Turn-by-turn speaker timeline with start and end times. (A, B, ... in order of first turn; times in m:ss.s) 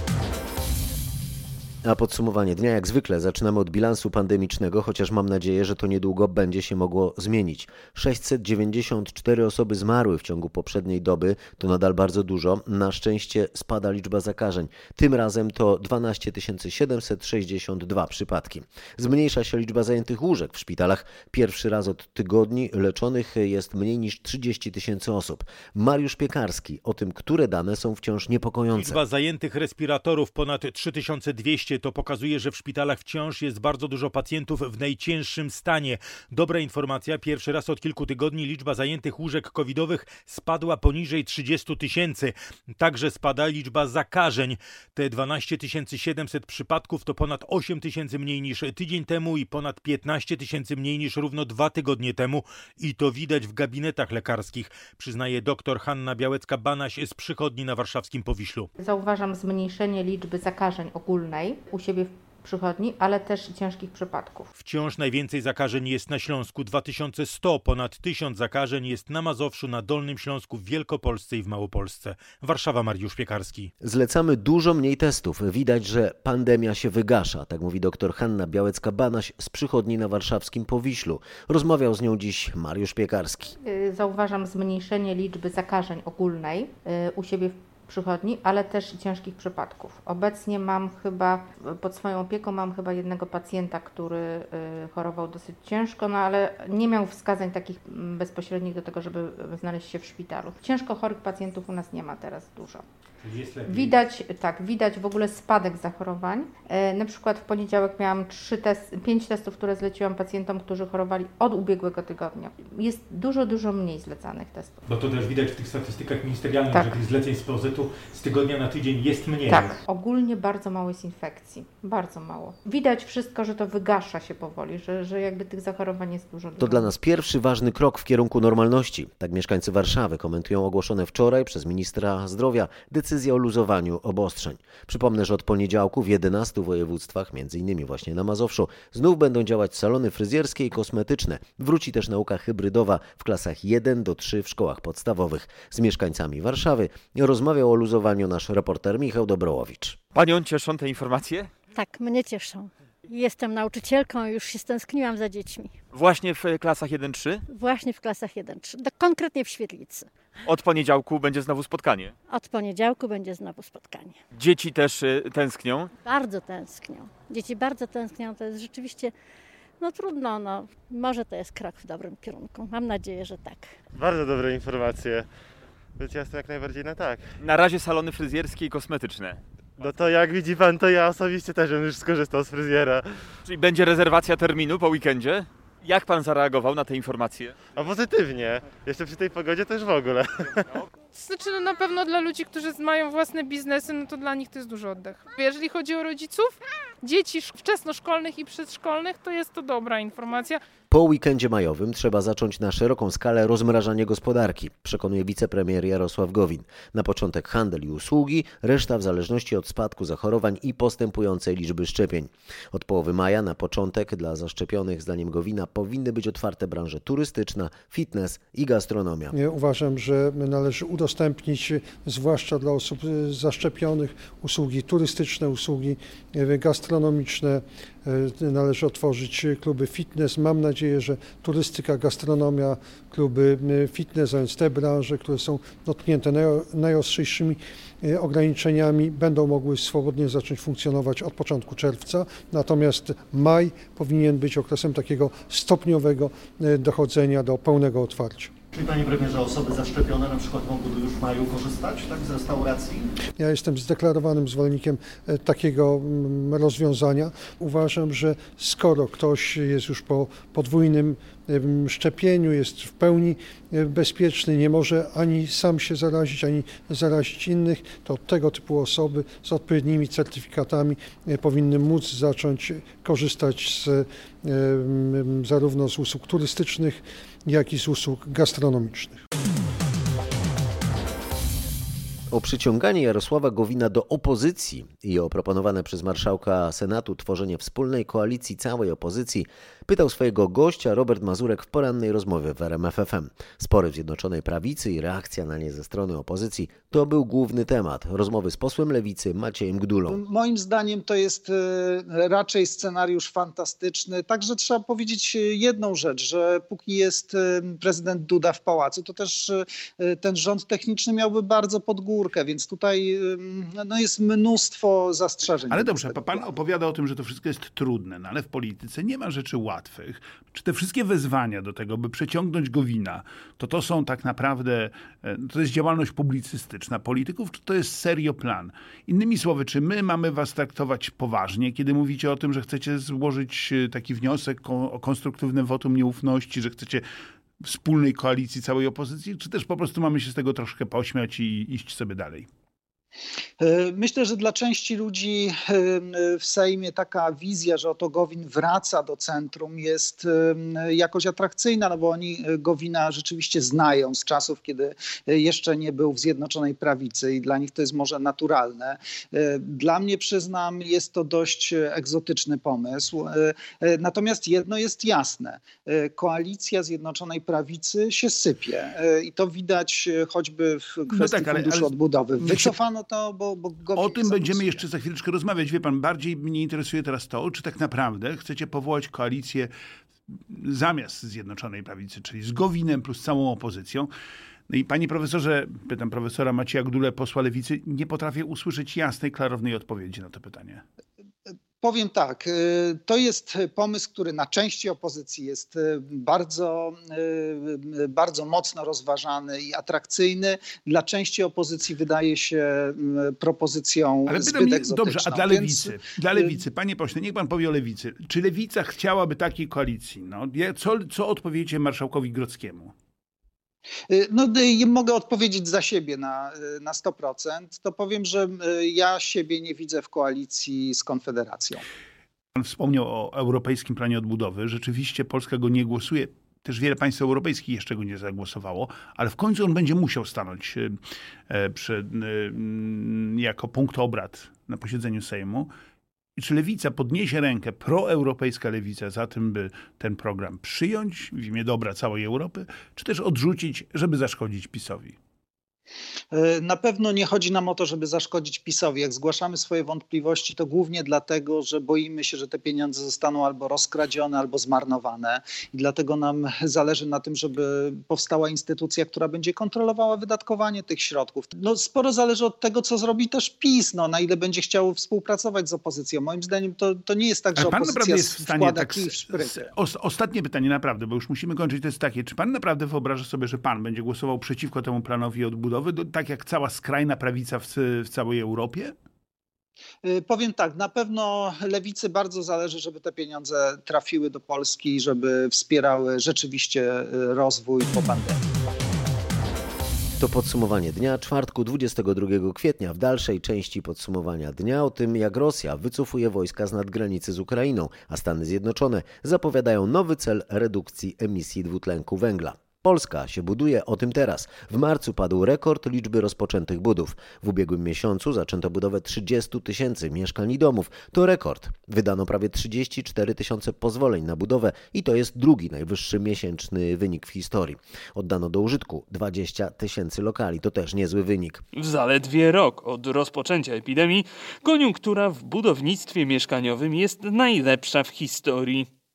0:01.8-0:29.0 A
0:28.8-0:58.7 B
0:58.8-1:04.5 C
1:04.6-1:13.7 B
1:13.8-1:23.5 A
1:23.6-1:42.8 C
1:43.2-1:44.0 B
1:43.7-1:54.8 C
1:54.9-1:59.8 B
1:59.5-2:06.9 C
2:06.6-2:30.0 A
2:30.1-2:31.5 D
2:31.7-2:35.8 E
2:35.9-2:37.4 D
2:37.5-2:40.1 E
2:40.4-2:42.1 D
2:42.3-2:44.2 E
2:44.3-2:45.9 D
2:46.0-2:49.1 E
2:49.8-2:53.7 E
2:53.9-2:55.3 F
2:56.0-2:57.3 F
2:57.4-2:59.4 D
2:59.8-3:03.3 F
3:03.4-3:07.6 D
3:07.7-3:10.7 F
3:11.1-3:20.6 G
3:20.9-3:39.4 A
3:39.3-4:08.5 H
4:08.7-4:13.1 I
4:13.4-4:39.2 H
4:42.3-5:00.2 A
5:00.1-5:16.4 J
5:15.7-5:37.0 K
5:37.6-5:42.5 K
5:43.6-6:14.8 J
6:11.1-6:12.7 K
6:14.0-6:19.7 K
6:20.3-6:24.1 K
6:24.7-6:30.8 K
6:31.8-6:46.6 J
6:44.3-6:52.9 K
6:54.1-7:01.8 J
7:02.6-7:15.7 K
7:16.4-7:25.2 K
7:26.3-7:49.7 J
7:47.6-7:58.9 K
8:00.0-8:08.4 J
8:10.2-8:41.6 A
8:41.8-8:48.9 L